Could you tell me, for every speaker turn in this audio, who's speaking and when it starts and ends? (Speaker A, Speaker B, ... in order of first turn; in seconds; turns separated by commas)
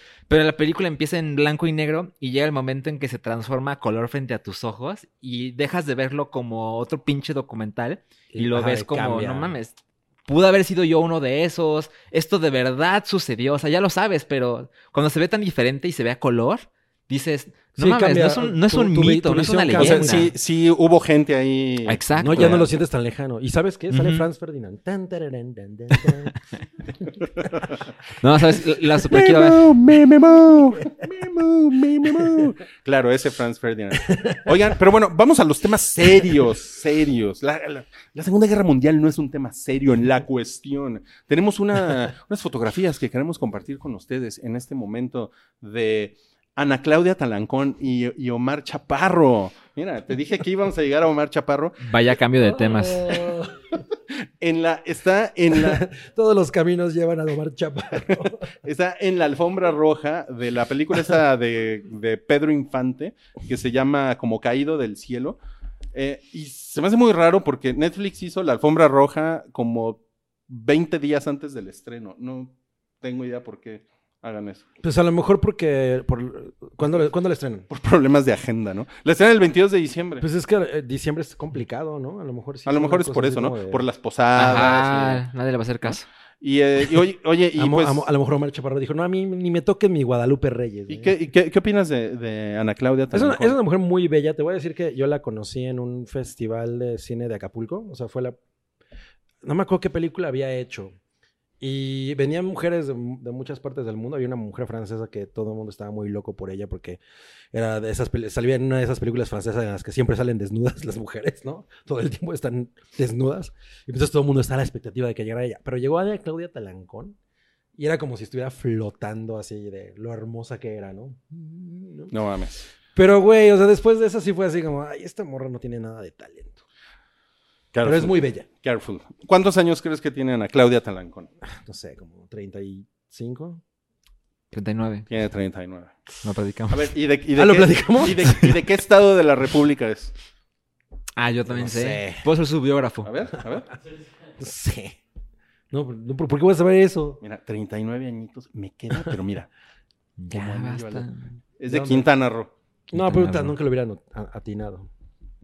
Speaker A: 0.3-9.7, Speaker B: 8.3-9.5, Speaker A: 10.3-20.3, Speaker B: 17.8-20.3, Speaker C: 19.8-22.6, Speaker A: 21.9-22.6, Speaker B: 22.2-26.4, Speaker A: 23.9-24.3, Speaker A: 28.2-29.7, Speaker C: 29.0-51.8, Speaker B: 34.1-34.4, Speaker A: 51.8-53.3, Speaker B: 52.6-53.6, Speaker C: 54.4-55.9, Speaker B: 55.5-58.5, Speaker C: 58.0-65.4, Speaker C: 65.9-74.7, Speaker B: 74.8-77.7, Speaker C: 77.7-80.3, Speaker B: 80.2-83.8, Speaker C: 82.7-85.2, Speaker A: 84.3-86.1, Speaker C: 86.4-88.1, Speaker B: 87.6-91.1, Speaker C: 90.9-93.6, Speaker B: 93.1-98.4, Speaker B: 99.4-101.0, Speaker B: 101.6-107.0, Speaker B: 107.5-117.2, Speaker B: 117.8-122.1, Speaker C: 122.1-122.7, Speaker B: 123.0-126.6, Speaker C: 127.7-131.3, Speaker B: 127.8-128.5, Speaker B: 131.6-133.6, Speaker A: 134.5-135.1, Speaker C: 135.1-136.0, Speaker A: 136.2-136.8, Speaker C: 136.7-140.1, Speaker B: 137.4-138.5, Speaker A: 141.2-143.1, Speaker B: 141.5-142.3, Speaker C: 143.0-143.7, Speaker B: 144.4-145.0, Speaker B: 145.7-147.2, Speaker C: 147.2-149.5, Speaker A: 150.2-151.3, Speaker C: 150.3-151.1, Speaker C: 151.6-152.5, Speaker B: 151.7-152.1, Speaker B: 152.9-154.9, Speaker A: 152.9-153.6